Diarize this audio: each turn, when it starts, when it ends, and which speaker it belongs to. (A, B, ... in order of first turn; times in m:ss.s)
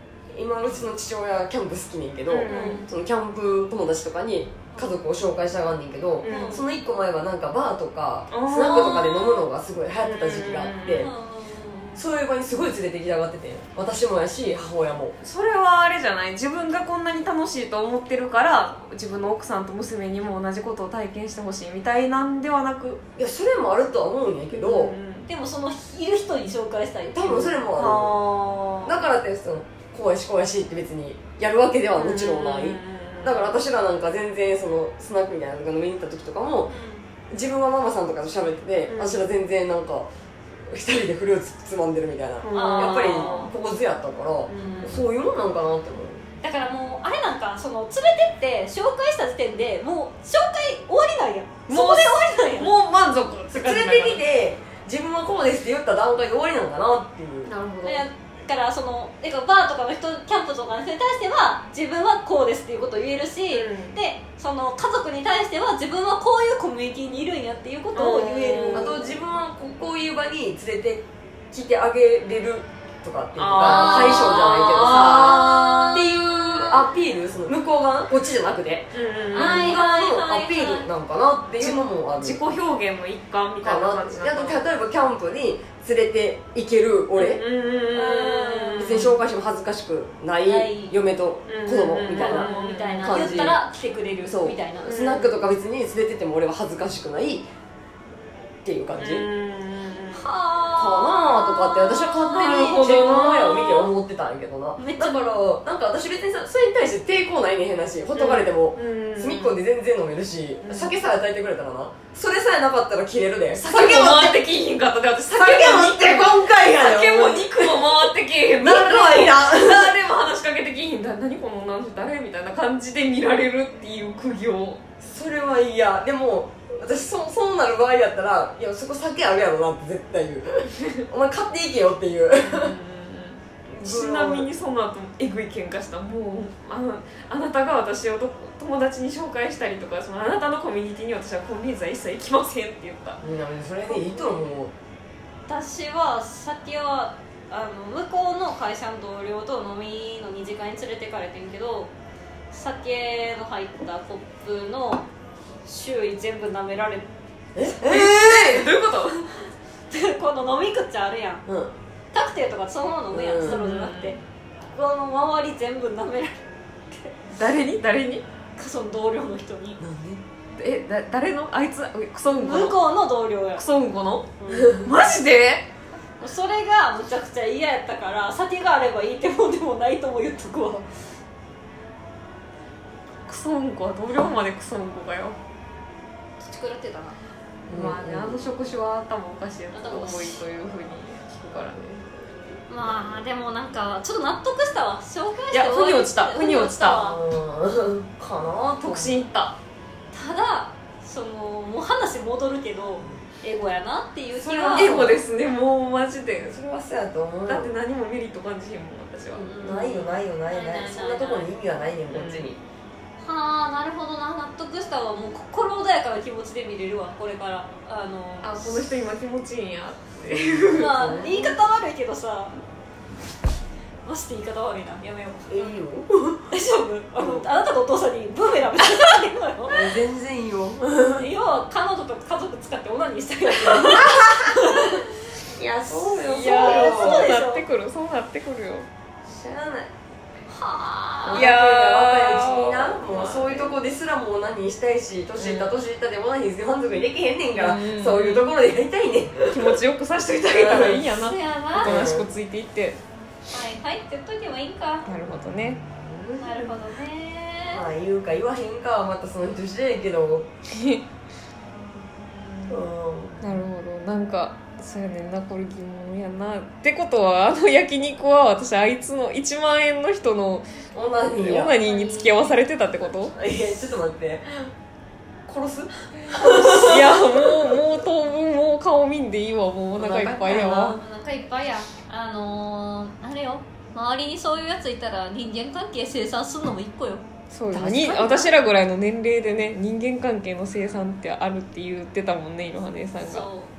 0:00.3-0:11.1 A
0:02.3-0:02.8 B
0:02.4-0:02.9 C
0:06.2-0:06.6 B
0:06.2-0:06.6 C
0:08.3-0:09.5 B
0:10.0-0:11.1 B
0:10.9-0:12.0 C
0:12.0-0:15.2 A
0:15.2-0:23.0 B
0:23.2-0:25.0 A
0:24.5-0:25.3 B
0:25.3-0:27.6 C
0:27.1-0:28.2 A
0:27.7-0:29.0 B
0:28.8-0:36.7 A
0:32.0-0:33.6 B
0:36.7-0:37.1 C
0:37.3-0:46.2 A
0:38.9-0:39.3 B
0:42.4-0:43.5 B
0:42.5-0:43.5 C
0:44.5-0:45.0 B
0:46.4-0:52.7 C
0:51.7-0:54.2 B
0:53.5-0:57.5 A
0:57.4-0:58.1 B
0:57.8-1:09.2 C
1:03.5-1:04.0 B
1:08.0-1:08.9 B
1:08.8-1:22.4 A
1:13.4-1:16.8 B
1:13.6-1:16.3 C
1:18.9-1:19.8 B
1:19.3-1:20.9 C
1:21.6-1:24.6 B
1:23.6-1:27.4 A
1:27.2-1:29.2 B
1:27.9-1:29.0 C
1:28.8-1:33.6 A
1:30.4-1:31.0 C
1:31.5-1:33.3 B
1:32.1-1:34.9 C
1:34.2-1:37.5 A
1:34.8-1:35.4 B
1:38.6-1:39.3 A
1:39.0-1:40.2 B
1:40.1-1:43.9 C
1:40.7-1:54.4 A
1:42.3-1:43.5 B
1:44.8-1:45.4 C
1:48.2-1:49.6 B
1:50.6-1:51.0 B
1:53.5-2:04.8 B
1:55.3-1:57.9 A
1:58.6-2:00.0 A
2:05.0-2:12.7 A
2:12.4-2:23.2 B
2:13.7-2:14.5 A
2:23.2-2:24.7 A
2:23.9-2:24.5 C
2:25.5-2:31.9 C
2:32.5-2:35.1 C
2:35.7-2:37.1 C
2:37.6-2:38.7 A
2:37.8-2:39.5 B
2:39.9-2:41.4 C
2:41.5-2:41.7 A
2:42.1-2:44.2 C
2:43.1-2:43.6 A
2:43.5-2:44.2 B
2:44.7-2:47.2 C
2:47.3-2:48.2 B
2:48.6-2:49.8 C
2:49.8-2:50.2 A
2:50.6-2:52.8 B
2:52.3-2:53.6 C
2:53.6-2:55.7 B
2:54.4-2:54.9 C
2:54.5-2:54.9 A
2:56.2-3:00.8 C
3:03.3-3:05.4 B
3:06.4-3:07.2 C
3:07.7-3:08.5 A
3:07.7-3:11.8 B
3:09.7-3:10.5 C
3:11.8-3:13.1 A
3:12.7-3:17.2 C
3:15.5-3:17.1 B
3:17.0-3:19.2 A
3:18.8-3:19.6 B
3:20.1-3:25.0 C
3:24.3-3:25.2 A
3:24.7-3:26.6 B
3:26.5-3:27.8 A
3:27.5-3:29.5 B
3:29.3-3:31.9 C
3:29.6-3:32.6 A
3:32.1-3:32.5 B
3:33.2-3:38.9 C
3:38.4-3:41.0 B
3:40.2-3:41.5 A
3:40.7-3:42.6 C
3:44.0-3:45.8 C
3:45.5-3:46.5 A
3:46.5-3:50.0 C
3:47.2-3:47.4 A
3:49.7-3:51.3 A
3:51.1-3:55.0 C
3:53.7-3:55.0 A
3:55.6-3:57.3 A
3:56.2-3:58.9 B
3:56.4-3:57.7 C
3:59.3-3:59.9 A
4:00.5-4:01.5 C
4:01.2-4:09.8 A
4:01.3-4:03.8 B
4:05.4-4:05.7 B
4:07.5-4:08.5 B
4:09.5-4:13.0 B
4:10.5-4:11.0 A
4:11.0-4:12.0 C
4:11.8-4:12.3 A
4:13.5-4:15.1 C
4:15.0-4:15.8 B
4:15.3-4:16.5 A
4:16.4-4:17.8 C
4:17.7-4:20.5 A
4:20.7-4:21.0 B
4:22.7-4:23.6 A
4:23.4-4:30.7 B
4:30.9-4:31.8 A
4:31.4-4:33.3 B
4:31.7-4:32.6 C
4:33.3-4:34.7 A
4:35.5-4:37.4 A
4:36.4-4:41.0 B
4:40.0-4:40.6 A
4:40.3-4:47.2 C
4:47.5-4:53.5 B
4:47.7-4:48.5 A
4:53.2-4:53.7 C